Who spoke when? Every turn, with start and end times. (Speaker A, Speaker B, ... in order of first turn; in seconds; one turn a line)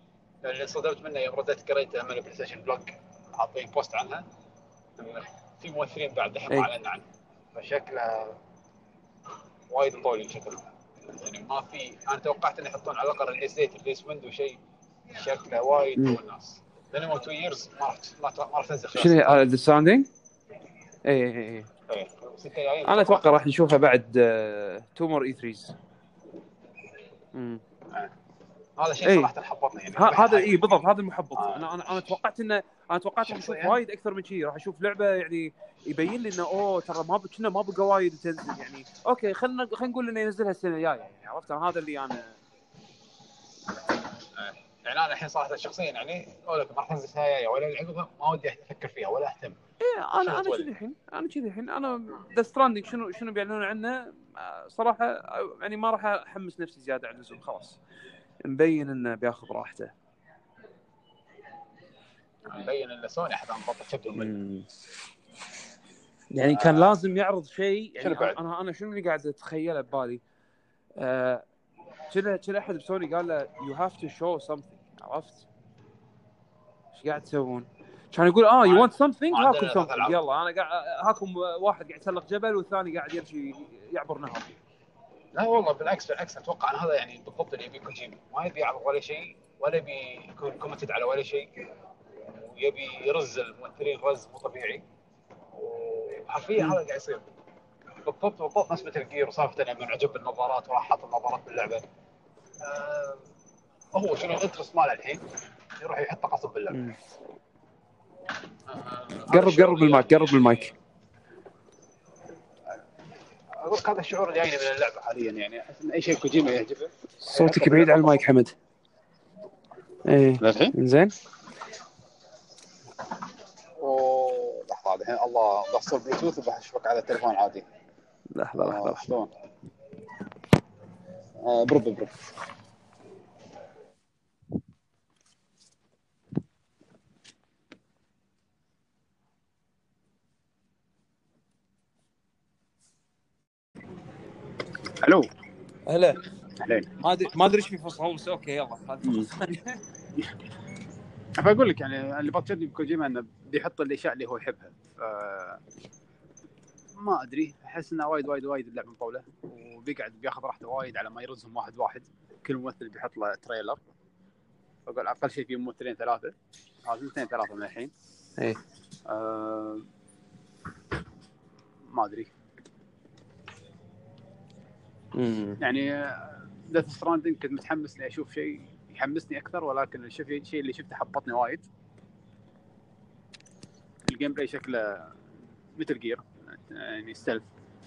Speaker A: 0.4-4.3
Speaker A: 5.0-8.4
Speaker A: 9.7-14.6
Speaker A: 15.1-19.4
Speaker B: 18.9-20.1
Speaker B: 21.1-21.7
Speaker A: 21.9-23.4
Speaker B: 22.9-25.8
Speaker B: 27.3-27.6
Speaker A: 28.8-30.8
Speaker B: 29.0-29.3
Speaker B: 29.9-42.4
Speaker A: 31.4-32.1
Speaker A: 33.2-33.8
Speaker A: 44.4-49.6
Speaker B: 49.8-57.8
Speaker A: 50.2-50.7
Speaker B: 58.4-59.9
Speaker A: 62.5-64.4
Speaker B: 64.2-64.7
Speaker B: 66.3-70.2
Speaker A: 66.5-66.9
Speaker A: 68.0-68.4
Speaker B: 71.0-71.5
Speaker B: 72.1-75.5
Speaker B: 76.9-84.6
Speaker A: 78.6-80.2
Speaker A: 85.3-91.6
Speaker A: 92.3-94.8
Speaker A: 95.5-97.2
Speaker A: 98.0-101.8
Speaker A: 102.6-103.2
Speaker A: 103.9-105.2
Speaker A: 105.8-106.8
Speaker B: 106.7-107.0
Speaker A: 108.7-110.7
Speaker B: 109.3-110.7
Speaker A: 113.6-118.3
Speaker B: 117.2-118.5
Speaker B: 120.1-121.1
Speaker A: 120.4-120.7
Speaker A: 123.8-127.7
Speaker B: 128.3-129.0
Speaker A: 128.6-129.3
Speaker A: 131.4-132.3
Speaker A: 145.0-145.3
Speaker B: 145.9-146.2
Speaker A: 146.6-146.9
Speaker B: 147.0-149.8
Speaker A: 151.4-155.6
Speaker A: 157.0-163.8
Speaker A: 164.9-166.3
Speaker A: 166.8-167.9
Speaker A: 169.1-169.8
Speaker A: 171.9-172.3
Speaker B: 175.2-175.6
Speaker A: 175.6-181.7
Speaker A: 184.1-185.2
Speaker A: 185.8-187.5